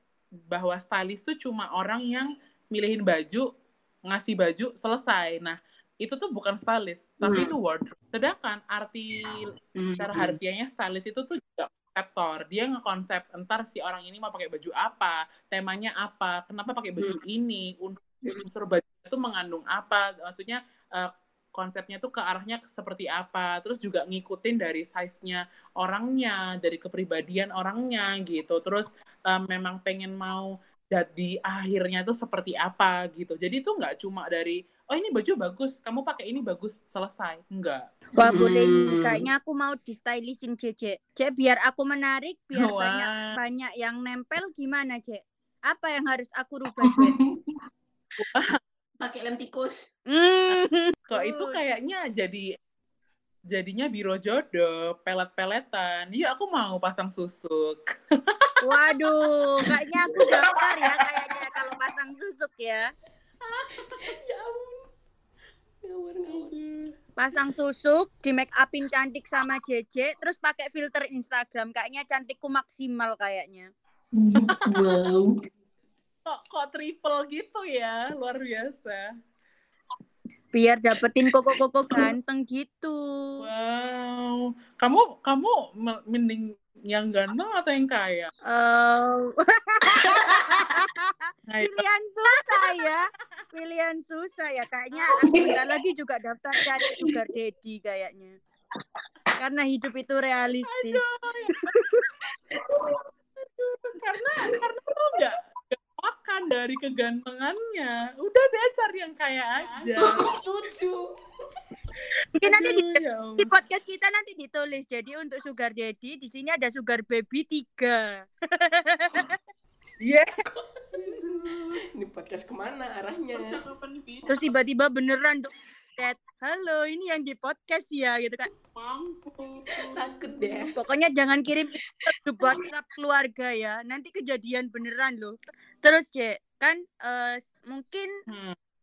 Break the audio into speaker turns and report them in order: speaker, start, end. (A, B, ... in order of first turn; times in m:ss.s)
0:00.5-0:03.5 A
0:04.1-0:37.8 A
0:38.2-0:47.2 B
0:38.2-0:38.8 C
0:42.5-0:43.4 A
0:48.2-0:48.6 A
0:49.1-0:49.6 D
0:50.1-0:51.6 B
0:50.5-0:52.5 A
0:53.5-0:58.8 A
0:58.6-1:02.9 B
1:03.4-1:04.9 C
1:05.8-1:06.6 C
1:07.2-1:13.7 B
1:14.2-1:15.3 D
1:14.5-1:15.0 A
1:16.2-1:19.1 A
1:20.5-1:23.4 B
1:23.4-1:28.3 A
1:28.5-1:38.4 B
1:30.0-1:30.6 A
1:31.5-1:31.8 A
1:32.4-1:32.9 A
1:35.2-1:35.5 D
1:39.4-1:41.1 B
1:40.6-1:41.8 A
1:43.6-1:50.2 A
1:50.0-1:51.1 C
1:52.4-1:59.3 B
1:52.4-1:53.5 A
2:00.0-2:00.4 A
2:00.5-2:03.6 C
2:01.1-2:01.8 A
2:03.3-2:04.4 A
2:04.3-2:08.5 B
2:08.7-2:10.7 A
2:09.9-2:10.8 C
2:10.7-2:18.1 B
2:18.3-2:18.6 A